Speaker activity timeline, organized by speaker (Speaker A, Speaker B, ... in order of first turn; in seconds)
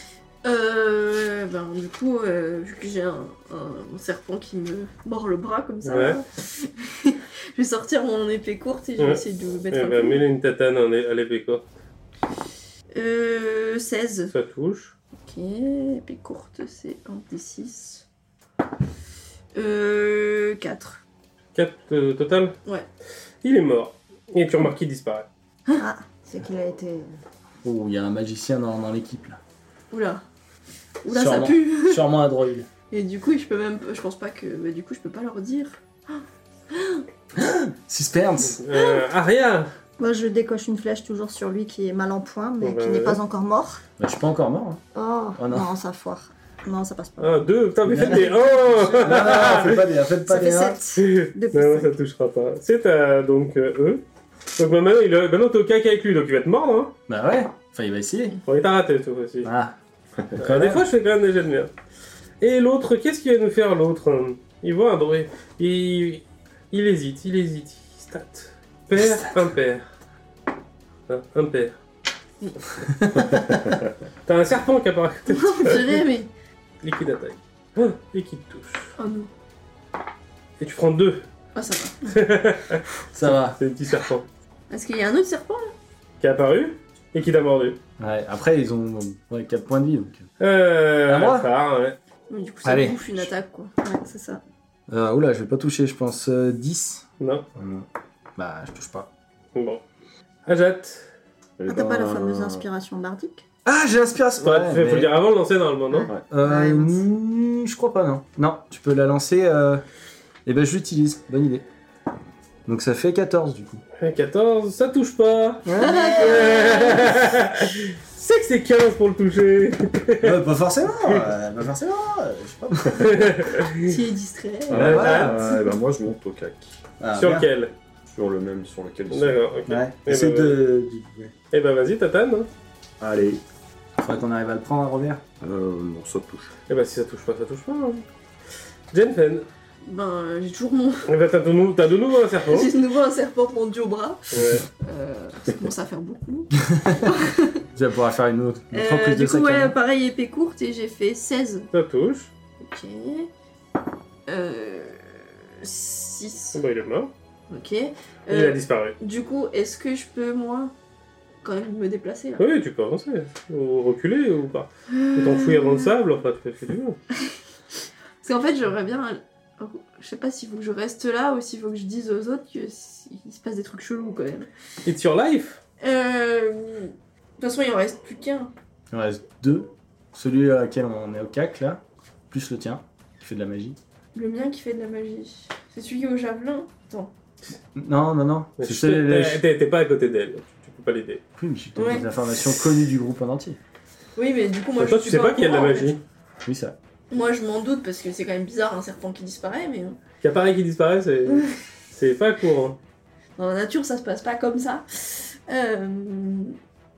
Speaker A: 0.4-10.2, 12.9-14.3, 15.2-18.0, 19.5-21.0, 29.9-30.2, 31.0-32.0, 32.9-37.0, 75.3-76.3, 79.0-79.3, 81.5-82.0, 84.7-85.7, 92.3-93.7, 115.8-117.2, 123.8-125.0, 139.8-141.1, 142.5-144.3, 144.8-147.6, 148.7-151.7, 152.6-153.3, 154.3-156.6, 157.5-160.7, 161.4-162.4, 165.2-165.6, 168.2-174.5, 175.8-178.5, 184.1-187.1, 191.8-192.1, 194.2-195.9, 197.1-200.0, 203.4-206.6
Speaker B: 5.8-6.2, 9.0-11.6, 14.3-14.9, 21.5-22.6, 23.4-25.3, 38.4-39.7, 42.6-43.2, 47.2-49.8, 51.0-54.0, 54.6-56.9, 58.5-59.5, 60.4-61.7, 62.4-69.8, 71.1-71.7, 74.2-76.0, 76.8-78.9, 80.6-81.2, 82.0-84.2, 86.2-87.8, 90.4-92.0, 97.2-97.4, 99.5-99.8, 100.5-101.1, 104.4-106.1, 114.0-115.7, 116.2-120.4, 123.0-124.0, 124.7-125.3, 127.2-127.7, 129.1-130.6, 131.5-132.5, 136.7-138.0, 138.9-139.4, 141.1-142.7, 144.3-144.6, 151.7-152.3, 156.5-157.1, 158.3-158.9, 162.4-167.0, 174.8-175.6, 188.6-191.2, 194.8-196.0, 200.2-202.8
Speaker C: 25.8-27.1, 40.0-43.8, 44.9-47.4, 48.9-49.3, 50.2-51.9, 93.8-94.4, 101.7-103.4, 105.9-107.0, 115.8-117.1
Speaker D: 27.6-29.4, 31.1-32.7, 37.3-38.6, 44.0-44.8, 45.4-45.7, 47.9-48.3, 49.0-50.8, 57.1-58.4, 59.4-59.7, 60.4-60.9, 72.9-73.8, 83.1-83.6, 88.0-90.2, 91.1-91.5, 92.6-93.3, 94.9-97.8, 98.4-99.1, 103.6-105.1, 106.3-109.8, 110.4-111.6, 112.7-113.8, 115.6-116.4, 120.2-123.3, 124.7-125.5, 127.0-127.5, 129.7-131.3, 134.0-135.2, 146.7-147.1, 147.7-149.8, 178.9-183.8, 187.7-189.4, 191.4-193.6, 196.4-196.8
Speaker E: 101.6-102.7, 124.7-126.8, 128.1-129.5, 133.0-133.4, 135.4-136.5